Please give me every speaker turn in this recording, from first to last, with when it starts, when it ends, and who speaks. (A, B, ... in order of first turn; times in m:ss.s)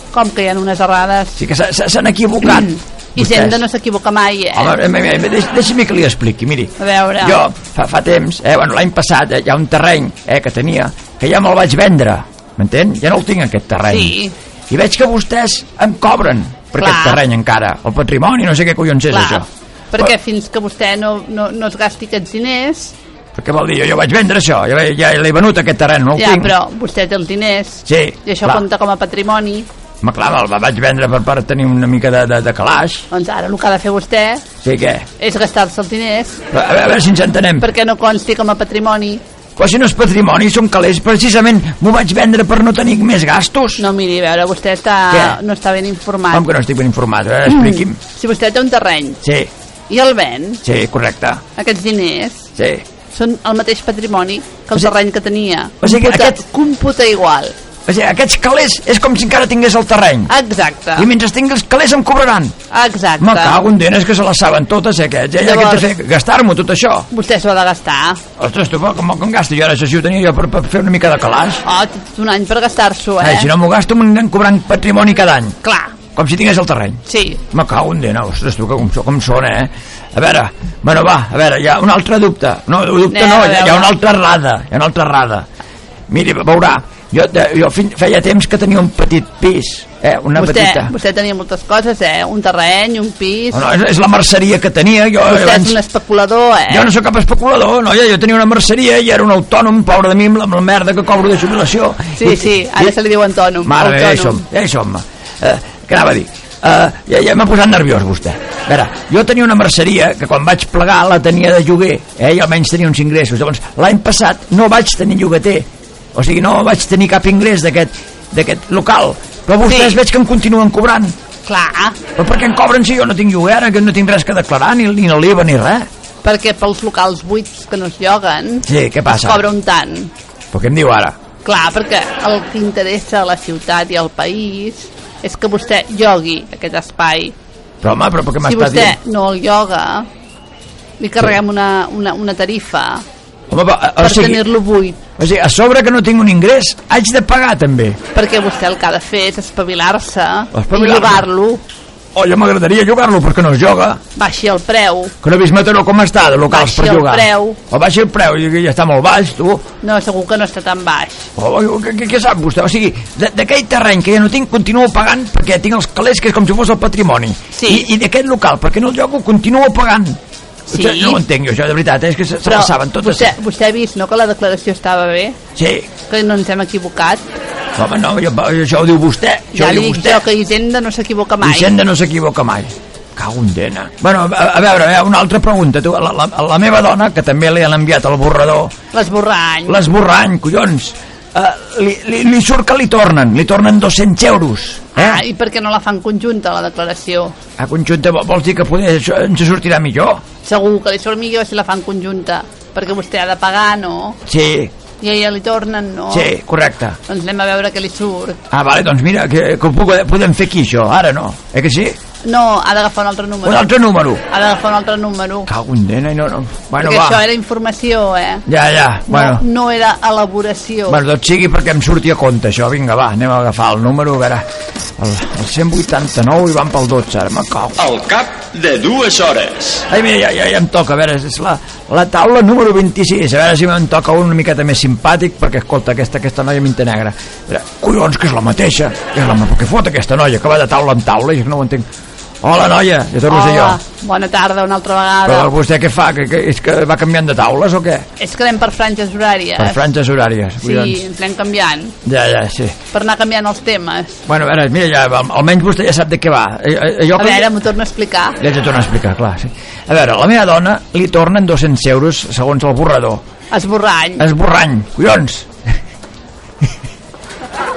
0:00.1-0:01.4 A
0:01.4-0:03.6 B
0:02.4-0:04.8 A
0:04.5-0:14.2 B
0:06.8-0:07.4 A
0:13.9-0:14.3 A
0:14.7-0:19.4 B
0:16.8-0:17.2 A
0:19.1-0:22.9 A
0:23.3-0:26.5 B
0:26.2-0:29.7 A
0:27.8-0:28.6 B
0:30.0-0:33.0 B
0:33.1-0:34.4 A
0:34.6-0:35.0 B
0:35.2-0:36.4 A
0:36.5-0:37.7 B
0:37.6-0:39.2 A
0:39.6-0:43.8 B
0:43.8-0:46.4 A
0:45.1-0:45.4 B
0:46.3-0:48.0 B
0:47.5-0:49.2 A
0:49.2-0:49.5 B
0:49.9-0:50.6 A
0:50.6-0:51.4 B
0:51.6-0:52.5 A
0:52.6-0:52.8 B
0:53.1-0:57.5 A
0:55.8-0:56.4 B
0:57.8-1:00.3 B
1:00.3-1:01.1 A
1:01.0-1:02.5 B
1:02.7-1:03.6 A
1:03.2-1:07.1 B
1:05.4-1:05.9 A
1:07.1-1:08.2 A
1:08.4-1:11.6 B
1:11.6-1:13.5 A
1:13.2-1:15.6 B
1:15.6-1:16.0 A
1:16.1-1:25.5 B
1:17.1-1:17.4 A
1:23.1-1:23.9 A
1:26.1-1:30.9 B
1:30.3-1:33.6 A
1:33.5-1:35.8 B
1:35.2-1:36.9 A
1:36.7-1:42.9 B
1:42.1-1:44.4 A
1:43.6-2:01.2 B
1:59.7-2:00.0 A
2:01.4-2:02.0 A
2:02.2-2:05.9 B
2:06.2-2:10.1 A
2:08.6-2:09.4 B
2:10.5-2:11.2 B
2:11.4-2:17.3 A
2:17.8-2:19.0 B
2:18.4-2:20.1 A
2:21.0-2:23.0 A
2:23.5-2:24.4 B
2:24.0-2:25.0 A
2:25.2-2:28.0 B
2:28.1-2:31.6 A
2:30.5-2:31.2 B
2:32.1-2:34.0 B
2:34.1-2:35.1 A
2:35.2-2:39.6 B
2:36.5-2:37.6 A
2:39.8-2:41.3 A
2:41.4-2:50.2 B
2:47.5-2:47.8 A
2:50.7-2:51.2 A
2:50.7-2:53.4 B
2:52.4-2:55.4 A
2:55.6-2:55.9 B
2:56.1-2:57.3 A
2:57.8-3:00.2 B
2:59.5-3:01.7 A
3:01.4-3:08.7 B
3:08.9-3:09.8 A
3:09.7-3:15.2 B
3:14.9-3:17.3 A
3:17.6-3:20.2 B
3:20.4-3:24.2 A
3:24.2-3:24.7 B
3:25.0-3:26.3 A
3:26.1-3:27.0 B
3:27.1-3:28.4 A
3:28.5-3:32.0 B
3:32.2-3:33.7 A
3:33.4-3:34.2 B
3:34.2-3:35.5 A
3:35.5-3:37.2 B
3:36.8-3:38.4 A
3:38.4-3:39.4 B
3:39.1-3:41.0 A
3:40.9-3:44.4 B
3:45.0-3:47.9 B
3:47.8-3:49.8 C
3:49.9-4:01.8 B
4:02.4-4:03.8 B
4:03.3-4:05.5 A
4:05.2-4:08.0 B
4:08.2-4:09.9 A
4:09.6-4:11.0 B
4:10.6-4:12.0 A
4:12.0-4:12.7 B
4:12.9-4:14.2 A
4:14.3-4:17.5 B
4:17.2-4:18.4 A
4:18.4-4:23.2 B
4:23.5-4:24.3 A
4:24.2-4:25.5 B